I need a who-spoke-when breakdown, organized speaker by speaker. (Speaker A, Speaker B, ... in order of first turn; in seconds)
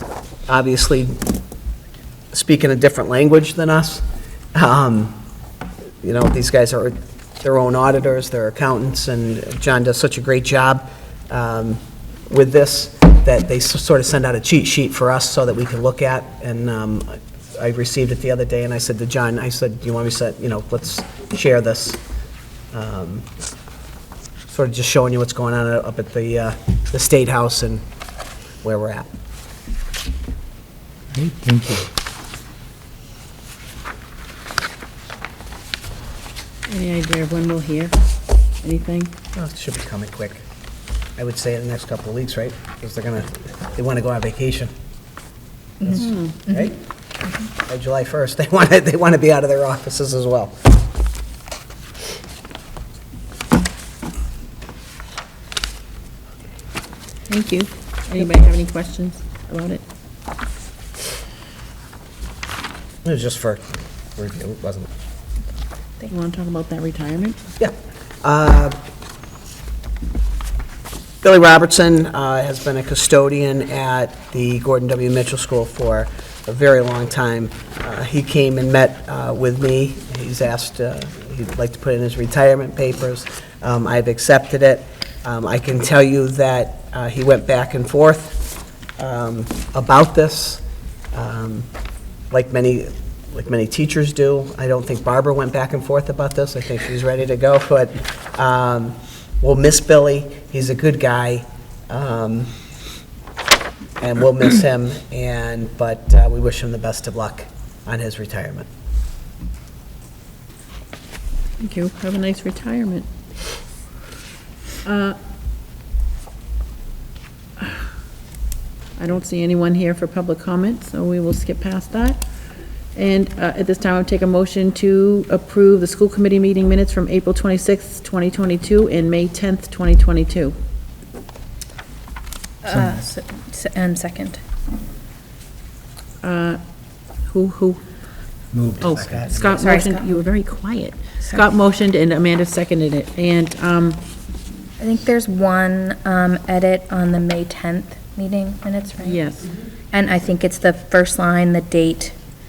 Speaker A: 0.5-1.2, 2.3-5.2, 6.0-22.0, 22.7-23.3, 24.5-27.8, 28.6-29.1, 39.3-40.4, 41.2-44.7, 45.8-46.8, 47.5-50.7, 63.0-64.9, 67.6-68.8, 71.2-88.4, 89.0-91.7, 92.3-102.5, 104.0-108.7
Speaker B: 31.1-31.9, 132.7-133.1, 138.5-139.6
Speaker C: 36.7-38.0, 38.6-39.1, 46.0-46.3, 57.3-59.8, 66.1-67.4, 111.6-113.0, 114.8-115.2, 119.0-122.2, 122.9-130.6, 136.2-136.6, 137.2-137.8, 138.8-144.0, 149.0-149.5
Speaker D: 132.6-134.4, 139.4-140.2, 144.8-149.2, 149.9-152.1